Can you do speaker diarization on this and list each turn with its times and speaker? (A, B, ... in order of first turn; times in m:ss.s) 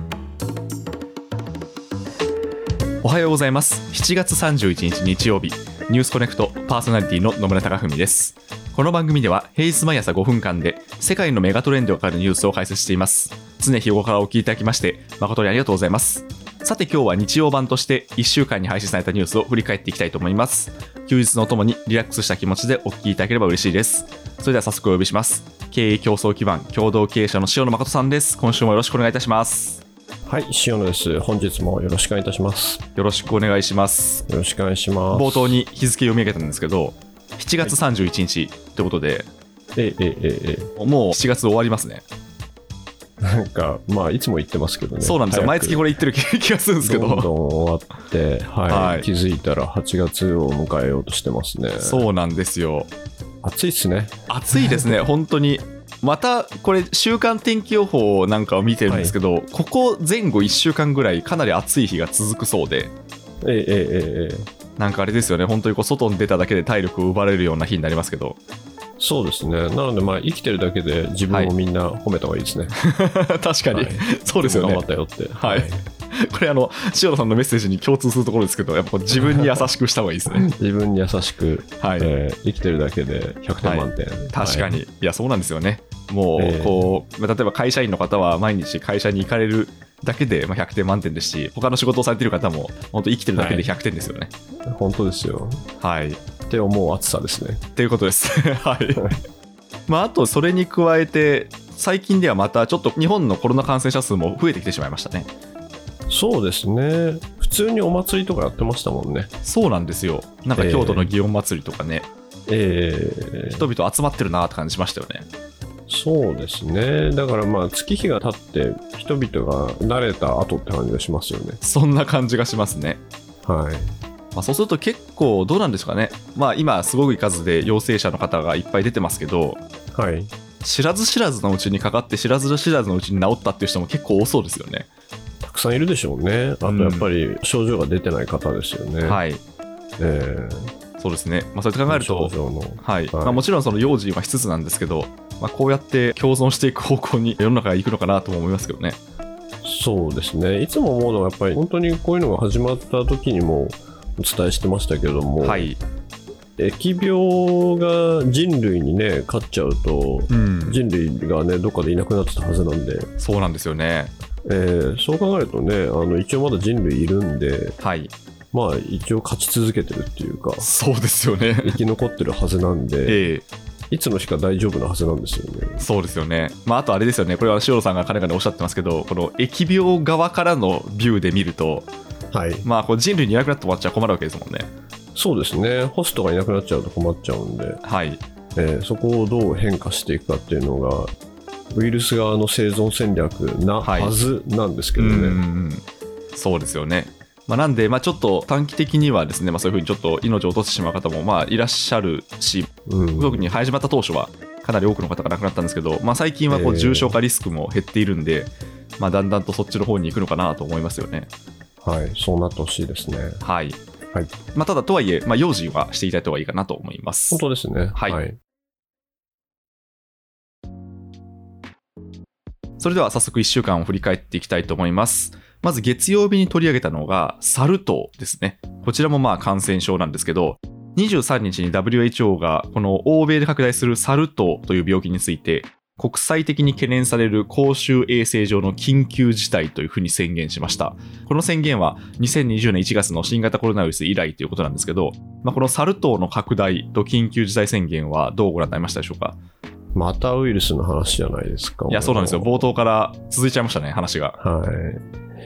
0:03.0-0:29.8 A
0:30.2-0:32.8 B
0:33.0-0:34.2 A
0:34.3-0:35.6 B
0:35.1-0:39.3 A
0:39.8-0:40.7 B
0:40.8-0:42.0 A
0:43.2-0:45.8 B
0:45.0-0:47.3 A
0:46.8-0:52.0 B
0:48.7-0:49.1 A
0:51.8-0:52.9 A
0:53.4-0:55.0 B
0:54.3-1:02.9 A
0:58.9-0:59.1 B
1:03.4-1:04.5 B
1:04.8-1:08.4 A
1:09.0-1:12.8 B
1:12.7-1:14.8 A
1:13.7-1:15.8 B
1:15.4-1:20.5 A
1:19.2-1:19.5 B
1:20.3-1:24.8 B
1:21.8-1:22.1 A
1:23.6-1:34.3 A
1:26.4-1:26.9 B
1:33.4-1:33.7 B
1:34.7-1:35.6 B
1:35.8-1:36.2 A
1:36.5-1:37.6 B
1:37.8-1:39.2 A
1:39.9-1:45.3 A
1:46.1-1:49.3 B
1:49.4-1:52.1 A
1:50.6-1:51.1 B
1:52.5-1:53.6 B
1:53.5-1:55.3 A
1:55.9-2:01.6 B
2:01.6-2:03.0 A
2:03.4-2:04.0 B
2:04.3-2:09.6 A
2:09.9-2:10.3 B
2:10.6-2:14.9 A
2:15.4-2:19.2 B
2:16.6-2:17.1 A
2:19.0-2:19.4 A
2:20.0-2:20.7 B
2:21.0-2:29.0 A
2:21.9-2:23.4 B
2:29.6-2:35.7 B
2:35.4-2:35.8 A
2:36.6-2:43.1 B
2:40.3-2:40.8 A
2:43.2-2:44.1 A
2:44.4-2:47.8 B
2:47.8-2:48.1 A
2:48.5-2:50.7 B
2:50.6-2:51.8 A
2:51.6-2:53.3 B
2:53.0-2:53.4 A
2:53.9-2:55.8 B
2:55.8-3:01.9 A
3:02.3-3:02.6 B
3:02.6-3:04.7 A
3:05.1-3:07.8 B
3:07.8-3:08.2 A
3:08.5-3:11.1 B
3:11.7-3:15.4 B
3:13.8-3:14.1 A
3:15.0-3:31.3 A
3:22.9-3:23.5 B
3:26.5-3:27.1 B
3:31.8-3:33.4 B
3:33.4-3:33.8 A
3:34.5-3:37.4 A
3:37.3-3:38.4 B
3:42.8-4:09.4 A
4:09.9-4:12.6 B
4:11.9-4:14.4 A
4:14.4-4:15.0 B